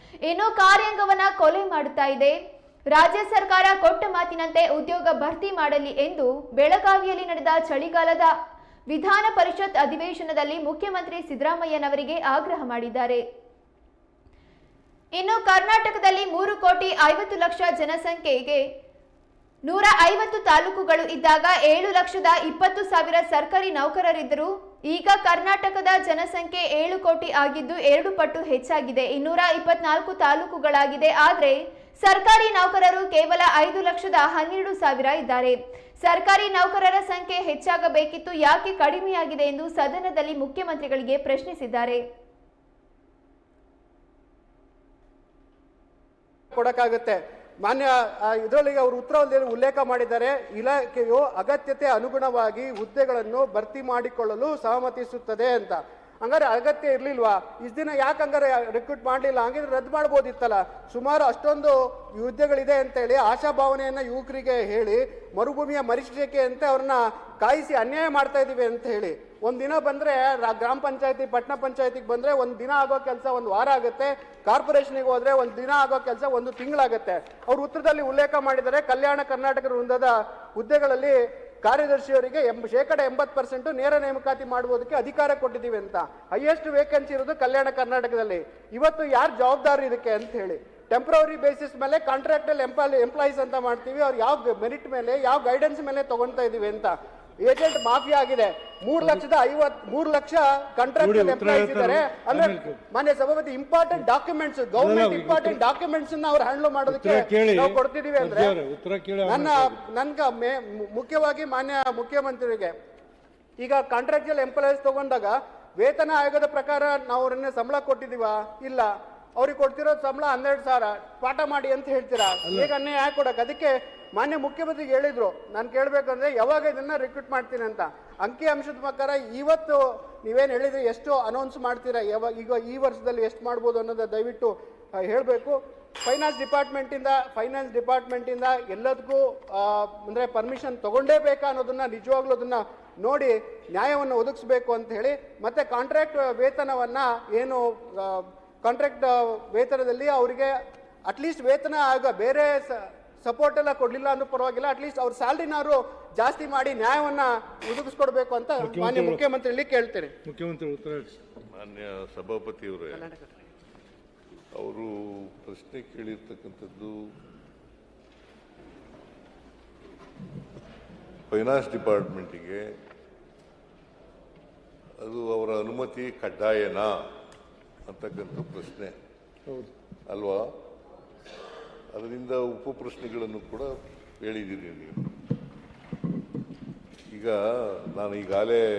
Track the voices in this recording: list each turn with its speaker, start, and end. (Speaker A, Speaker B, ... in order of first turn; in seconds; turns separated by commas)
Speaker A: 0.2-2.3, Speaker A: 2.9-8.3, Speaker A: 8.9-13.2, Speaker A: 15.2-18.6, Speaker A: 19.6-42.0, Speaker B: 46.5-108.5, Speaker C: 101.0-102.8, Speaker C: 104.8-105.5, Speaker C: 106.9-109.7, Speaker B: 109.2-112.7, Speaker B: 113.6-160.1, Speaker C: 158.6-159.2, Speaker C: 160.2-161.1, Speaker D: 161.5-163.1, Speaker B: 162.9-163.2, Speaker D: 164.6-166.9, Speaker D: 171.3-172.6, Speaker D: 175.0-176.9, Speaker D: 177.8-178.9, Speaker D: 180.1-180.4, Speaker D: 181.9-183.7, Speaker D: 184.2-185.0, Speaker D: 187.9-188.6